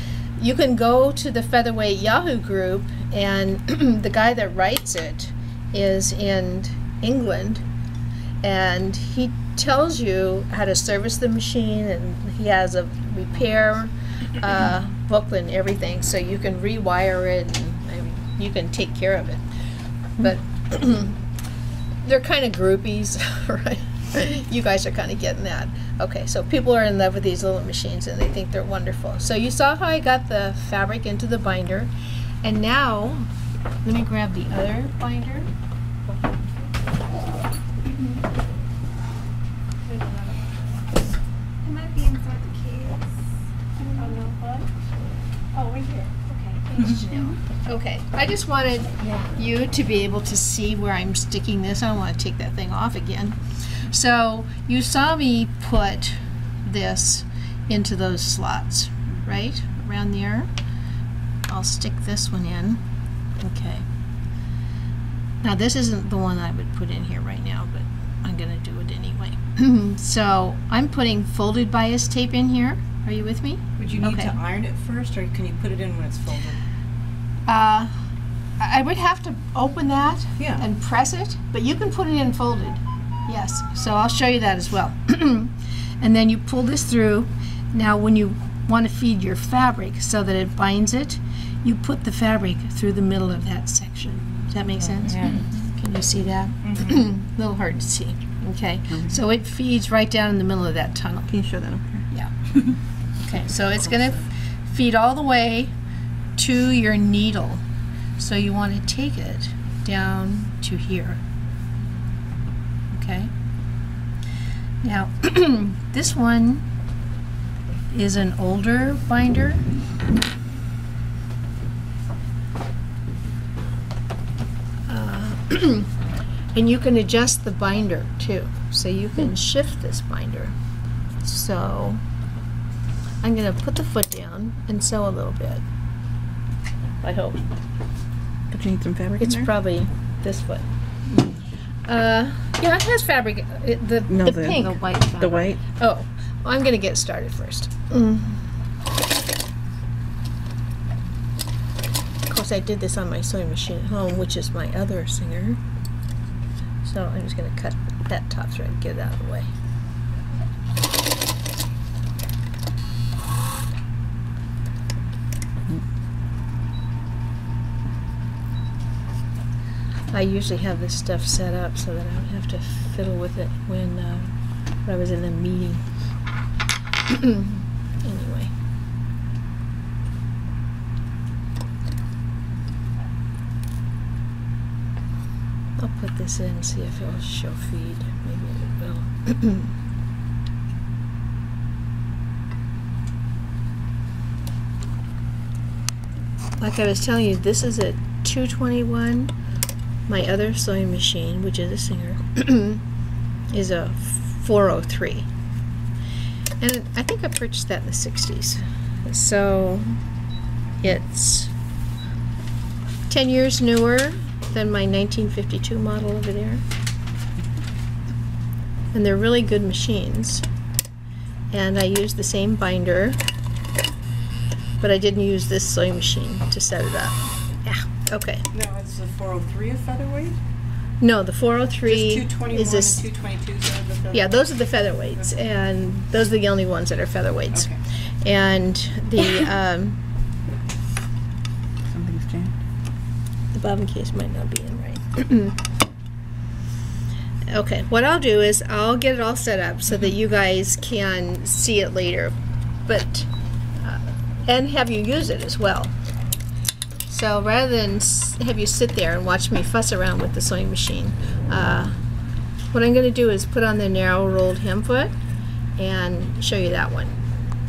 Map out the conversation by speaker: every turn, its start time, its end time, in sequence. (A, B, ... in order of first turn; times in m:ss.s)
0:00.4-0:07.6 A
0:08.4-0:19.4 A
0:20.2-0:21.2 A
0:22.0-0:31.9 A
0:32.4-0:33.3 A
0:33.8-0:35.5 A
0:39.8-0:40.7 B
0:41.6-0:43.1 B
0:43.8-0:44.4 B
0:44.0-0:44.6 A
0:45.5-1:00.5 A
0:46.3-0:47.3 B
1:01.5-1:02.8 A
1:03.4-1:03.8 A
1:05.4-1:14.4 A
1:13.8-1:16.6 C
1:17.5-1:17.9 A
1:18.6-1:41.3 A
1:35.0-1:35.5 B
1:35.1-1:35.4 C
1:36.7-1:37.0 C
1:41.3-1:42.1 D
1:43.2-1:45.7 A
1:46.4-1:47.6 A
1:48.2-1:51.2 A
1:52.9-1:53.3 A
1:54.8-1:56.6 A
1:57.9-1:59.6 A
2:04.9-2:05.9 A
2:06.5-2:10.5 A
2:11.2-2:12.0 A
2:13.2-2:15.6 A
2:17.0-2:17.4 A
2:18.5-2:19.5 D
2:19.2-2:20.7 A
2:21.9-2:25.1 A
2:24.1-2:25.6 D
2:24.5-2:25.5 B
2:25.7-2:28.4 A
2:32.3-2:35.6 A
2:36.8-2:39.5 A
2:50.1-2:54.3 A
2:54.8-2:55.8 A
2:57.1-2:58.5 A
3:05.8-3:09.7 A
3:16.6-3:19.3 A
3:20.1-3:22.8 A
3:23.5-3:25.3 A
3:26.6-3:30.0 A
3:30.8-3:31.5 A
3:33.1-3:36.6 A
3:38.9-3:40.4 A
3:41.5-3:43.2 A
3:44.8-3:48.4 A
3:48.5-3:50.4 C
3:51.0-3:53.0 A
3:51.8-3:54.4 C
3:54.1-3:57.7 A
3:57.5-3:57.8 C
3:58.2-4:00.0 A
4:01.9-4:02.5 D
4:03.5-4:05.6 A
4:07.5-4:12.3 A
4:12.9-4:13.3 A
4:13.8-4:15.9 A
4:17.1-4:21.9 A
4:22.7-4:25.1 A
4:25.8-4:27.1 A